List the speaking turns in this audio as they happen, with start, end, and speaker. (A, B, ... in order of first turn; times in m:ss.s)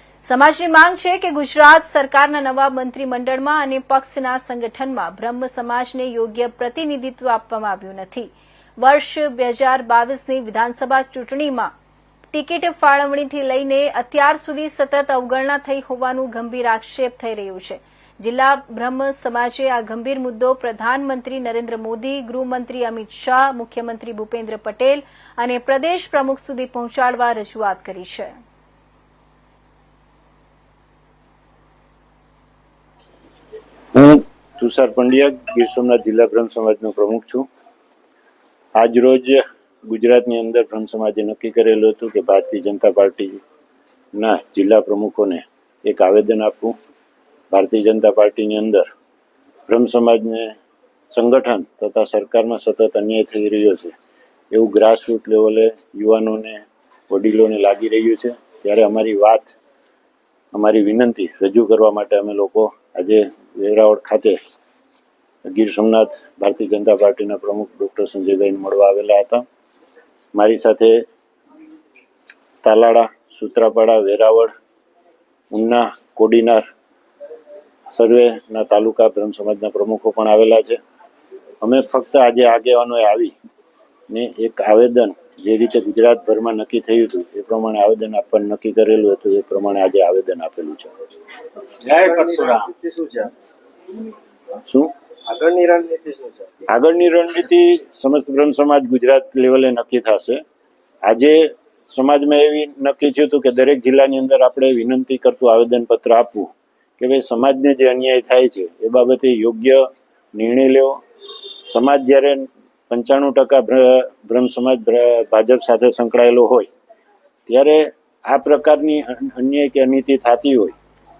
0:00.2-0:11.7 A
0:12.3-0:28.3 A
0:33.9-0:37.4 B
0:38.8-0:43.4 B
0:44.2-0:46.8 B
0:47.5-0:48.8 B
0:49.7-0:50.5 B
0:51.1-0:53.9 B
0:54.5-0:59.5 B
1:00.5-1:04.4 B
1:05.5-1:09.4 B
1:10.3-1:11.0 B
1:12.6-1:14.5 B
1:15.5-1:16.6 B
1:17.9-1:20.8 B
1:21.6-1:23.3 B
1:24.1-1:30.9 B
1:31.8-1:33.3 C
1:32.0-1:32.4 B
1:35.3-1:36.5 C
1:36.7-1:40.4 B
1:41.0-1:49.8 B
1:50.3-1:51.0 B
1:51.7-1:56.7 B
1:57.5-2:00.7 B